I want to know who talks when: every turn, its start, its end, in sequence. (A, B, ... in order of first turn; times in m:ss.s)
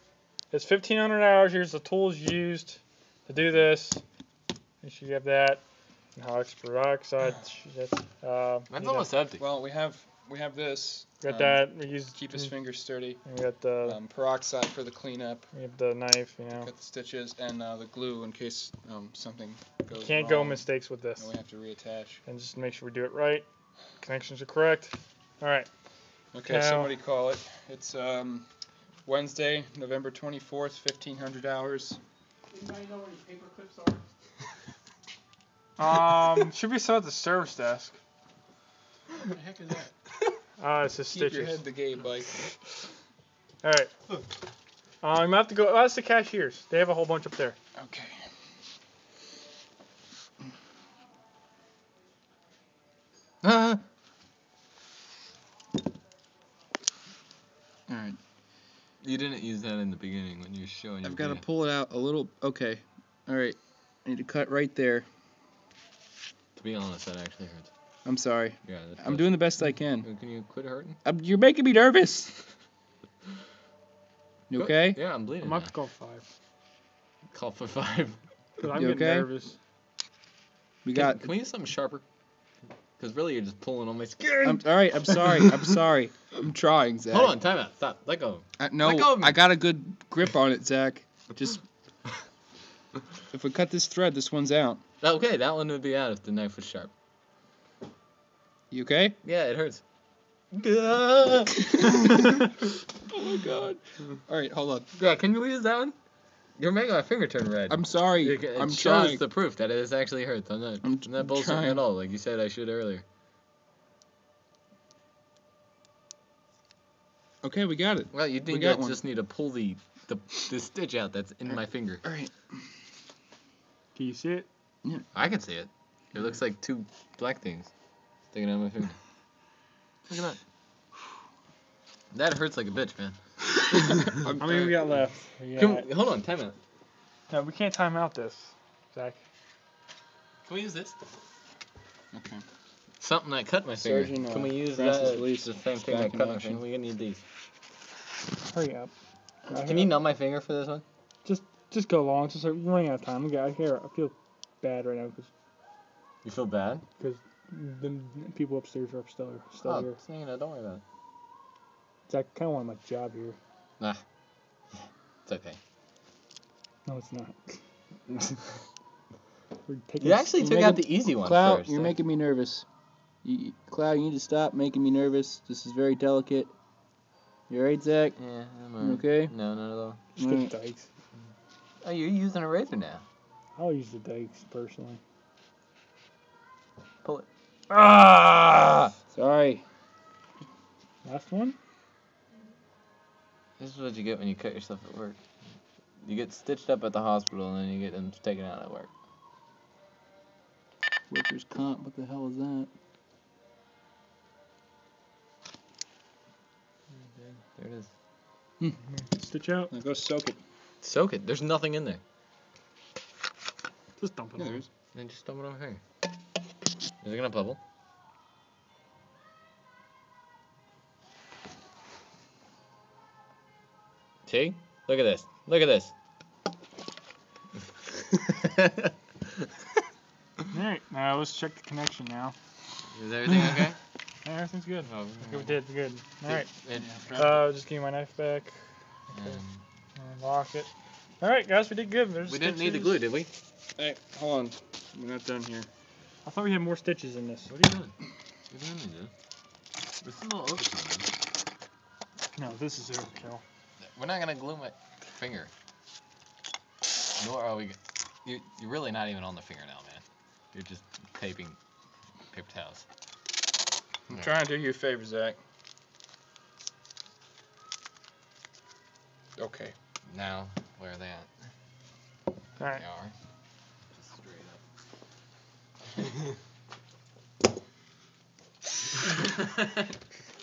0:00.5-0:04.0 A
0:04.8-0:05.6 A
0:06.2-0:08.8 A
0:08.7-0:09.4 B
0:08.8-0:13.2 C
0:11.2-0:12.5 A
0:13.2-0:14.0 A
0:13.8-0:15.5 C
0:15.5-0:16.7 A
0:16.5-0:20.6 C
0:19.9-0:21.3 A
0:21.2-0:22.2 C
0:22.3-0:23.5 A
0:24.0-0:25.7 A
0:26.3-0:28.5 C
0:26.4-0:26.9 A
0:29.0-0:32.0 C
0:32.5-0:34.0 D
0:35.8-0:38.0 A
0:39.2-0:39.9 D
0:40.6-0:41.6 A
0:41.1-0:42.4 C
0:43.6-0:43.9 A
0:45.0-0:47.6 A
0:47.8-0:48.2 C
0:53.4-0:53.8 C
0:57.9-0:58.2 C
0:59.0-1:01.4 B
1:01.0-1:05.1 C
1:06.6-1:07.7 B
1:08.0-1:10.1 C
1:08.7-1:09.4 B
1:10.0-1:11.0 B
1:11.0-1:12.5 C
1:14.5-1:15.0 C
1:14.6-1:15.7 B
1:15.4-1:16.3 A
1:17.3-1:18.2 B
1:18.6-1:19.6 A
1:18.7-1:19.3 C
1:20.8-1:21.3 C
1:21.0-1:22.0 B
1:23.0-1:25.6 B
1:24.4-1:27.4 C
1:27.1-1:29.4 B
1:28.6-1:31.6 C
1:33.3-1:34.8 C
1:35.0-1:36.9 B
1:38.7-1:39.2 C
1:39.2-1:39.8 B
1:40.5-1:42.2 B
1:42.1-1:42.4 C
1:43.1-1:44.9 C
1:45.0-1:46.0 B
1:46.6-1:53.0 B
1:47.7-1:49.2 C
1:50.8-1:51.8 C
1:57.4-1:59.0 C
1:58.1-2:02.0 B
2:02.0-2:02.3 C
2:04.0-2:04.5 A
2:05.2-2:07.7 B
2:08.3-2:09.0 B
2:10.1-2:10.4 B
2:12.1-2:13.2 B
2:13.7-2:14.2 B
2:14.1-2:14.9 C
2:14.4-2:15.9 A
2:15.6-2:16.6 B
2:17.3-2:19.2 A
2:20.5-2:21.0 B
2:22.1-2:22.4 C
2:23.0-2:27.2 B
2:23.8-2:26.6 C
2:28.4-2:28.9 A
2:29.5-2:30.0 A
2:29.6-2:30.8 B
2:31.2-2:35.3 A
2:36.2-2:36.8 B
2:37.0-2:40.0 A
2:39.6-2:40.8 B
2:42.1-2:43.4 A
2:44.8-2:45.6 B
2:46.9-2:47.6 A
2:49.7-2:50.7 A
2:50.0-2:51.9 B
2:50.4-2:52.6 C
2:53.2-2:56.5 C
2:57.5-2:58.2 C
2:58.2-3:00.0 B
2:58.8-2:59.3 C
3:00.2-3:00.5 C
3:00.2-3:00.9 A
3:01.8-3:03.0 B
3:03.6-3:05.0 A
3:07.7-3:09.6 C
3:11.0-3:11.6 A
3:13.6-3:15.2 B
3:16.0-3:18.9 B
3:21.1-3:22.7 C
3:27.2-3:27.9 B
3:29.0-3:29.7 A
3:29.7-3:30.4 C
3:30.8-3:32.0 B
3:34.0-3:34.6 A
3:34.4-3:34.7 C
3:35.0-3:35.8 B
3:37.0-3:37.6 B
3:44.3-3:45.9 B
3:48.1-3:48.9 B
3:50.5-3:52.4 A
3:53.0-3:53.8 B
3:54.2-3:56.5 A
3:54.8-3:55.6 B
3:56.3-3:57.0 B
3:56.8-3:57.4 C
3:57.1-3:58.6 A
3:59.1-3:59.6 B
4:00.0-4:03.0 A
4:02.3-4:03.3 B
4:03.8-4:05.7 C
4:06.2-4:07.6 A
4:07.5-4:07.9 B
4:08.5-4:09.1 B
4:10.0-4:11.1 B
4:12.4-4:13.4 A
4:13.9-4:15.5 B
4:17.2-4:21.6 B
4:22.3-4:22.8 B
4:24.1-4:25.4 C
4:29.4-4:29.8 C
4:30.1-4:31.3 B
4:32.7-4:33.1 B
4:33.9-4:34.6 B